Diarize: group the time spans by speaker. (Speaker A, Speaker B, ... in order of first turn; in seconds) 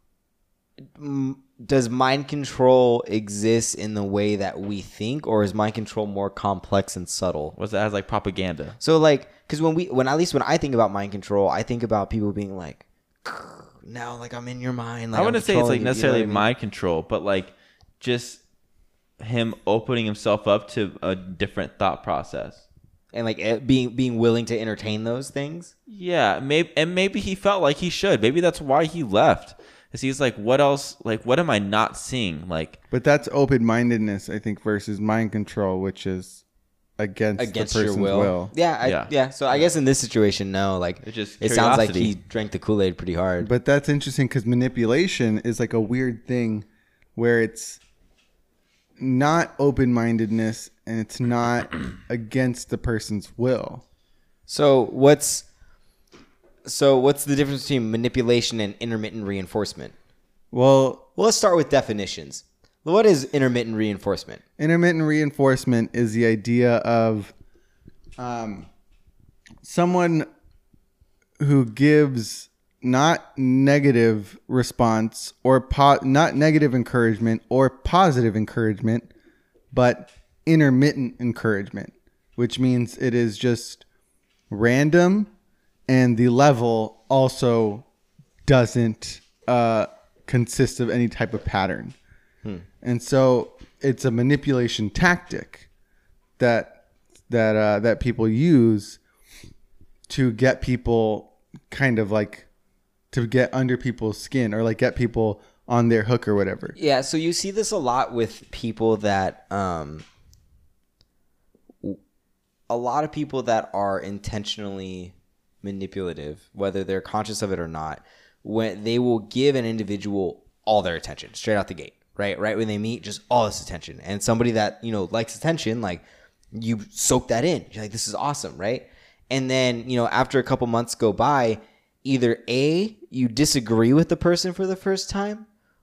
Speaker A: 0.9-7.5, 8.8-16.5, 23.1-25.7, 37.4-43.5, 54.5-55.4, 56.6-59.9, 61.2-64.4, 106.8-110.0, 112.7-135.4
Speaker B: 7.5-8.8, 15.1-18.4, 19.2-22.6, 25.9-32.8, 38.8-39.7, 41.0-42.1
Speaker C: 32.9-36.4, 37.0-38.5, 43.4-47.8, 49.0-53.8, 60.5-61.1, 64.6-67.3, 68.2-68.7, 69.6-70.2, 71.4-79.1, 79.7-83.8, 84.5-85.3, 85.9-87.8, 88.5-92.0, 92.8-95.7, 96.4-96.8, 97.3-99.0, 100.1-102.5, 103.1-106.8